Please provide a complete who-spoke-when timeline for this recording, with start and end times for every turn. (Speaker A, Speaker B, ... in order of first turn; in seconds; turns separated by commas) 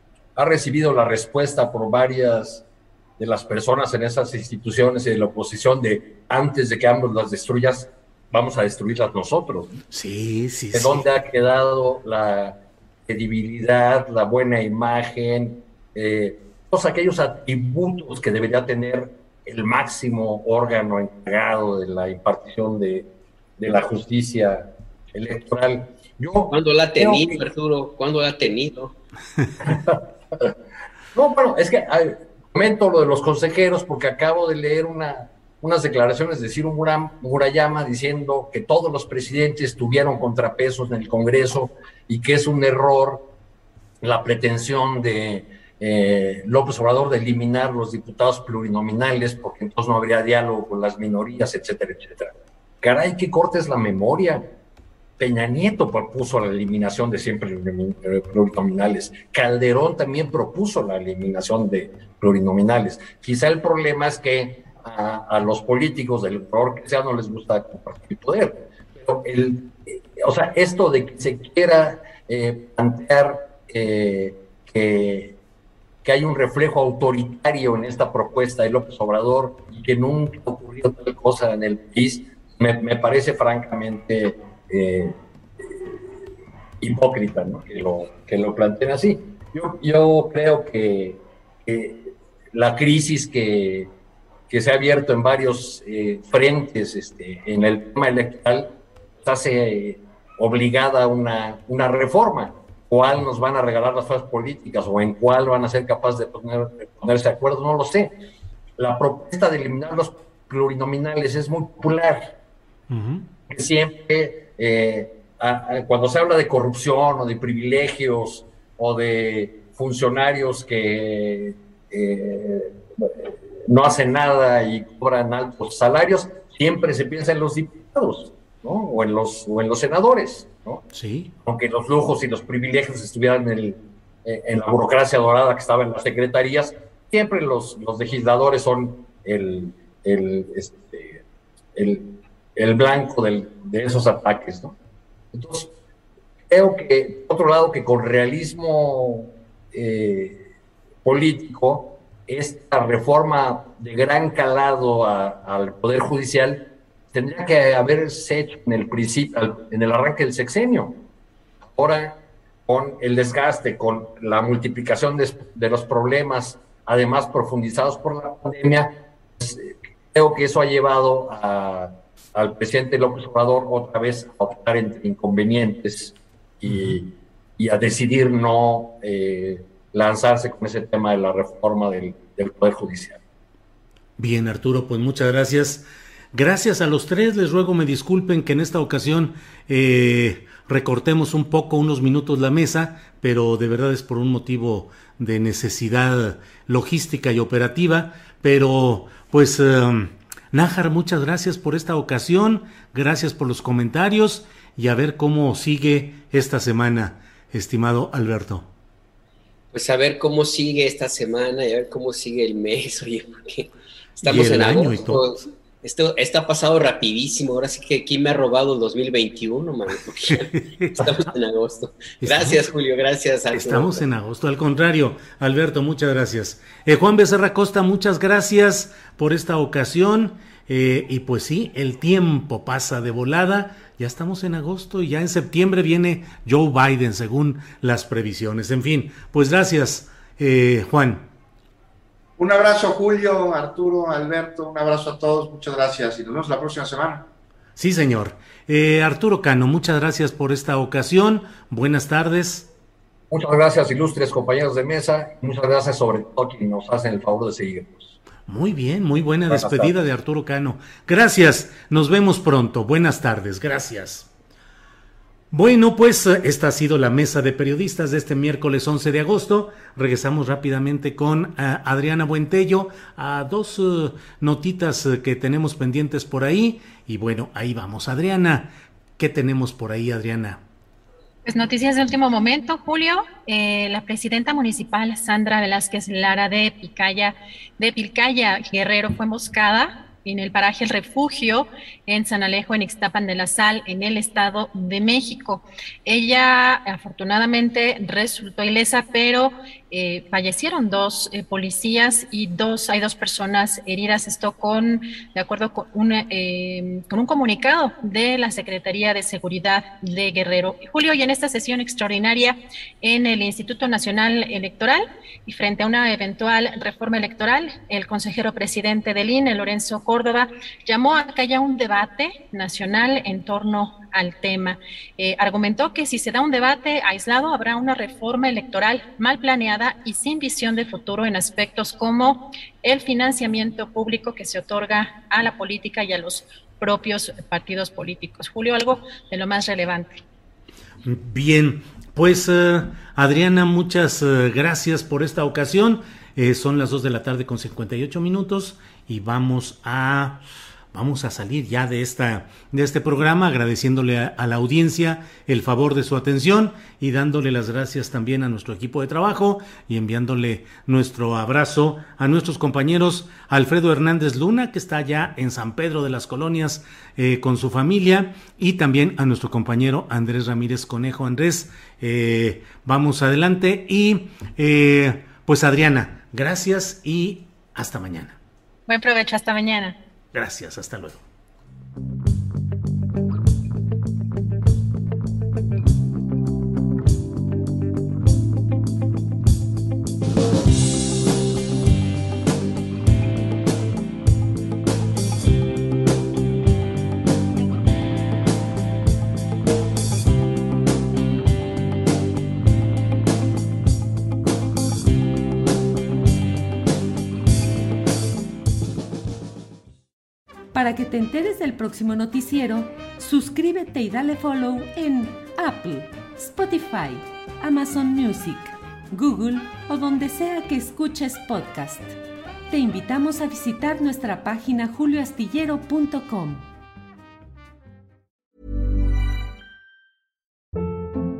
Speaker A: 0.4-2.6, Speaker A: 3.2-9.8, Speaker B: 9.9-11.1, Speaker A: 10.7-23.1, Speaker A: 23.6-27.4, Speaker C: 26.5-28.9, Speaker A: 29.6-30.5, Speaker A: 31.1-43.2, Speaker A: 44.0-54.4, Speaker A: 55.2-75.3, Speaker A: 76.0-86.0, Speaker A: 86.8-93.9, Speaker A: 94.5-98.7, Speaker A: 99.2-108.1, Speaker A: 108.8-112.3, Speaker B: 112.9-113.2, Speaker A: 113.5-130.8, Speaker B: 130.9-131.3, Speaker A: 131.4-141.2, Speaker A: 141.8-144.8, Speaker A: 145.3-145.7, Speaker A: 146.5-150.5, Speaker A: 151.1-160.9, Speaker A: 161.7-162.2, Speaker A: 162.7-183.2, Speaker B: 176.7-177.0, Speaker B: 184.2-208.7, Speaker C: 209.7-224.1, Speaker B: 214.2-215.3, Speaker B: 220.3-221.1, Speaker B: 222.2-222.6, Speaker B: 223.5-241.3, Speaker D: 242.4-247.2, Speaker B: 247.8-252.7, Speaker A: 253.3-258.2, Speaker B: 258.5-264.3, Speaker A: 259.5-259.9, Speaker B: 265.5-280.6, Speaker E: 281.4-340.2, Speaker B: 341.1-350.4, Speaker B: 350.9-378.4, Speaker E: 378.9-380.0, Speaker B: 380.3-381.2, Speaker F: 410.7-422.2, Speaker F: 422.7-426.6